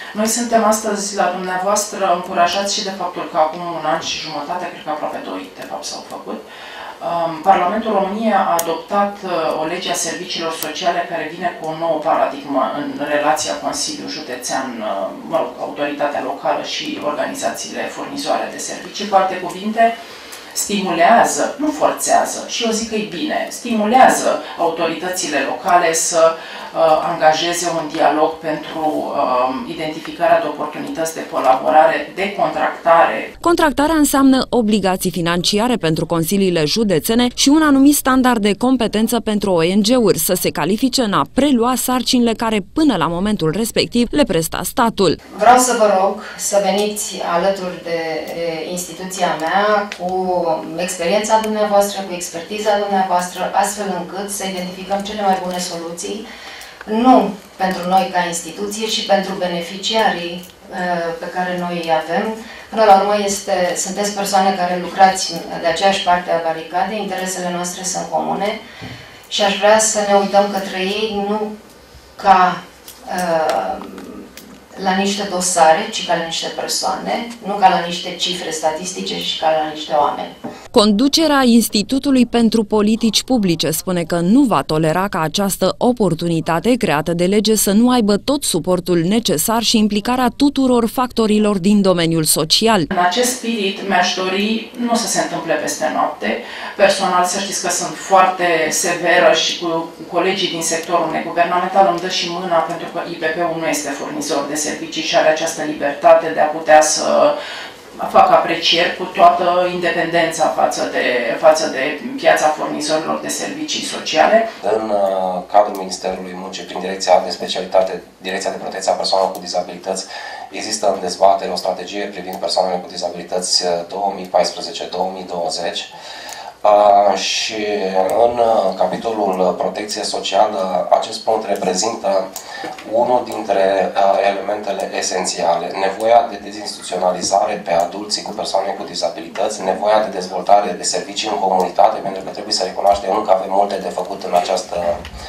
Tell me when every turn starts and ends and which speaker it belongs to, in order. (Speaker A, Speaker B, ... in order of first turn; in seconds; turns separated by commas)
Speaker A: 0.1-6.4, Speaker A: 7.0-19.9, Speaker A: 20.5-33.3, Speaker B: 33.4-45.2, Speaker C: 45.3-56.2, Speaker C: 56.9-68.6, Speaker C: 69.3-71.5, Speaker C: 72.2-80.3, Speaker B: 80.7-92.9, Speaker A: 92.9-107.3, Speaker A: 107.9-114.5, Speaker D: 114.6-125.9, Speaker D: 126.6-132.3, Speaker D: 132.8-145.0